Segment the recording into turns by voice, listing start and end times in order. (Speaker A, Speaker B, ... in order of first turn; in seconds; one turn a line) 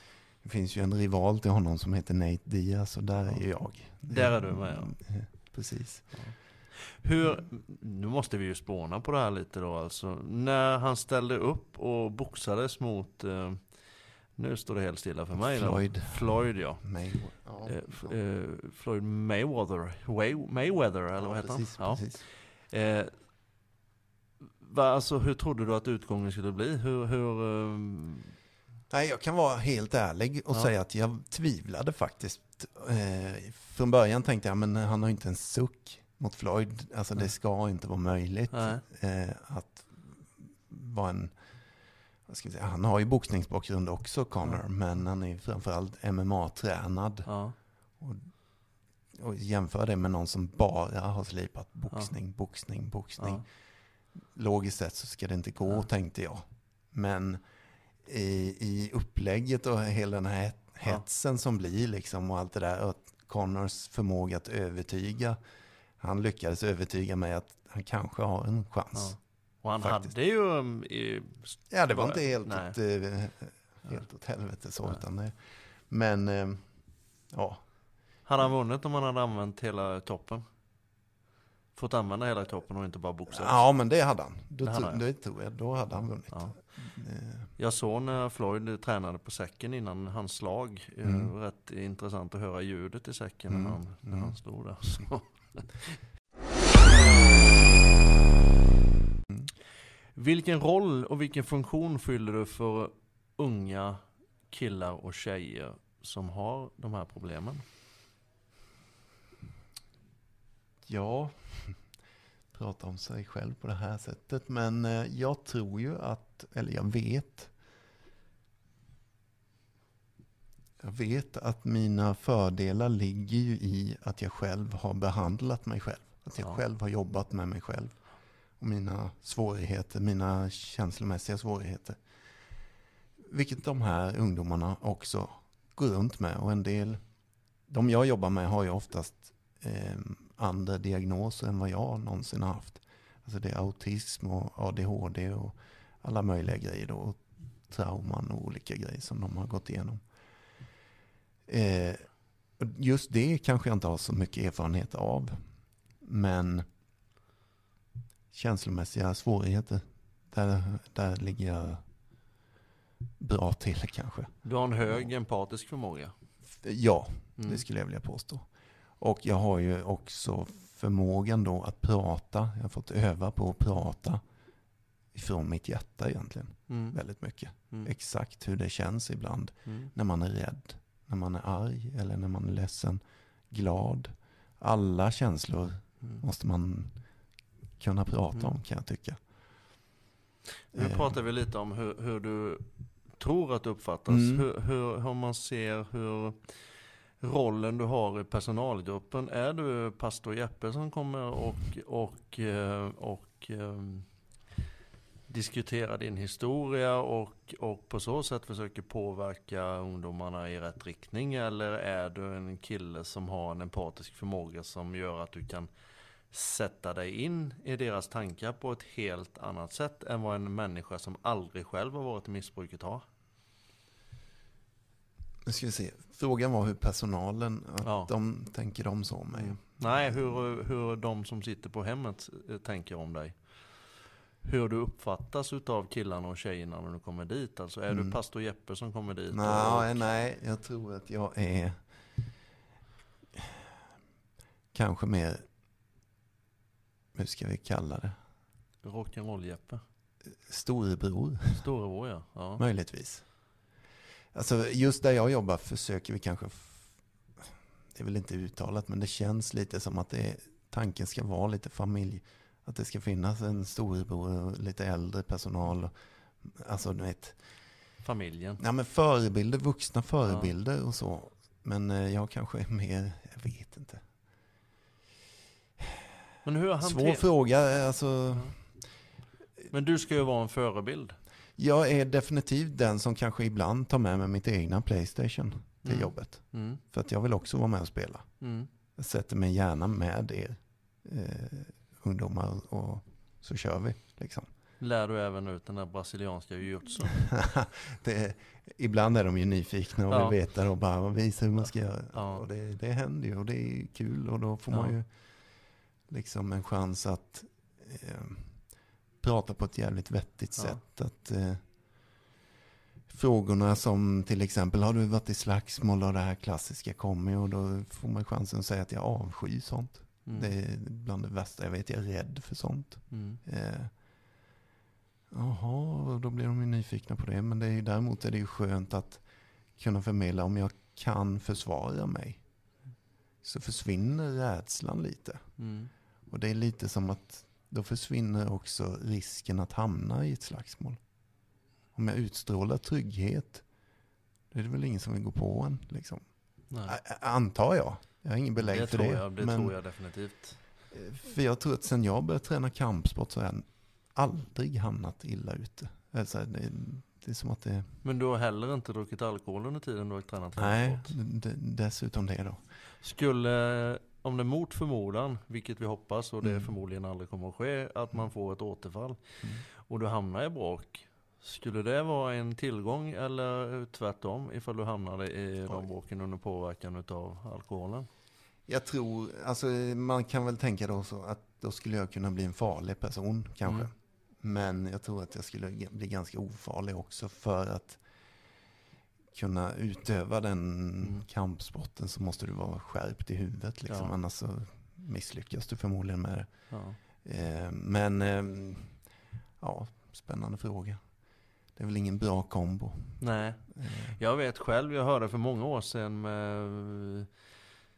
Speaker A: 0.4-6.1
Speaker B: 4.1-4.9
Speaker B: 6.1-13.7
Speaker B: 14.3-16.8
Speaker A: 15.3-18.2
Speaker B: 17.6-22.1
Speaker A: 21.2-22.2
Speaker B: 22.7-23.1
Speaker B: 24.6-28.3
Speaker A: 28.9-41.4
Speaker B: 38.5-38.8
Speaker A: 42.3-47.3
Speaker B: 47.2-47.5
Speaker A: 48.0-48.3
Speaker A: 49.1-53.4
Speaker B: 53.2-53.4
Speaker A: 54.3-57.4
Speaker A: 58.0-65.4
Speaker A: 66.0-69.2
Speaker B: 68.9-72.8
Speaker A: 69.8-70.1
Speaker A: 71.7-76.7
Speaker A: 77.3-77.6
Speaker B: 78.2-80.4
Speaker B: 81.7-83.6
Speaker A: 83.3-87.5
Speaker B: 84.6-85.0
Speaker B: 87.6-96.0
Speaker A: 91.0-91.3
Speaker A: 93.5-94.3
Speaker B: 100.1-107.6
Speaker A: 110.8-111.8
Speaker A: 112.5-117.5
Speaker A: 120.8-128.0
Speaker A: 128.6-132.0
Speaker A: 133.2-137.0
Speaker A: 137.7-150.0
Speaker A: 151.4-152.1
Speaker A: 152.6-155.4
Speaker A: 156.0-156.6
Speaker A: 158.3-161.8
Speaker A: 163.2-164.3
Speaker B: 164.4-166.1
Speaker A: 166.6-168.4
Speaker B: 167.4-167.6
Speaker A: 169.0-174.2
Speaker A: 175.1-186.9
Speaker B: 176.7-177.0
Speaker B: 179.7-179.9
Speaker A: 187.8-189.2
Speaker B: 190.7-192.6
Speaker A: 190.7-191.1
Speaker B: 193.2-196.5
Speaker A: 194.1-194.4
Speaker B: 197.2-204.1
Speaker B: 205.3-215.7
Speaker B: 216.3-223.0
Speaker A: 225.4-230.1
Speaker B: 227.8-228.1
Speaker B: 229.3-233.4
Speaker B: 234.4-240.0
Speaker A: 237.9-238.2
Speaker A: 239.3-241.8
Speaker A: 244.7-245.4
Speaker A: 247.1-248.2
Speaker B: 248.8-249.8
Speaker A: 250.3-251.6
Speaker B: 251.5-252.6
Speaker A: 252.6-253.2
Speaker A: 254.3-256.9
Speaker A: 257.9-267.4
Speaker B: 268.0-268.6
Speaker A: 268.6-274.0
Speaker B: 270.3-270.5
Speaker B: 276.4-277.3
Speaker A: 276.8-278.6
Speaker B: 279.7-281.2
Speaker A: 281.6-288.2
Speaker B: 285.8-286.8
Speaker B: 288.4-288.7
Speaker A: 288.9-294.5
Speaker B: 294.8-297.3
Speaker A: 297.1-305.1
Speaker B: 300.1-300.4
Speaker B: 302.1-302.4
Speaker A: 306.1-308.6
Speaker A: 309.2-311.6
Speaker A: 313.1-323.9
Speaker B: 320.2-320.5
Speaker B: 323.1-323.4
Speaker A: 325.3-329.2
Speaker A: 329.8-332.4
Speaker A: 333.4-335.4
Speaker B: 335.6-335.9
Speaker A: 336.3-341.0
Speaker A: 341.9-343.6
Speaker A: 344.5-346.2
Speaker B: 346.7-346.9
Speaker A: 346.9-349.7
Speaker B: 348.6-350.6
Speaker A: 350.9-357.9
Speaker B: 358.0-361.1
Speaker A: 360.6-362.6
Speaker B: 363.0-369.2
Speaker A: 366.4-366.7
Speaker B: 369.9-378.1
Speaker A: 378.7-388.0
Speaker A: 389.3-396.5
Speaker B: 396.7-397.0
Speaker A: 397.1-399.0
Speaker A: 399.6-401.0
Speaker A: 401.7-403.2
Speaker B: 403.2-407.3
Speaker A: 403.8-404.2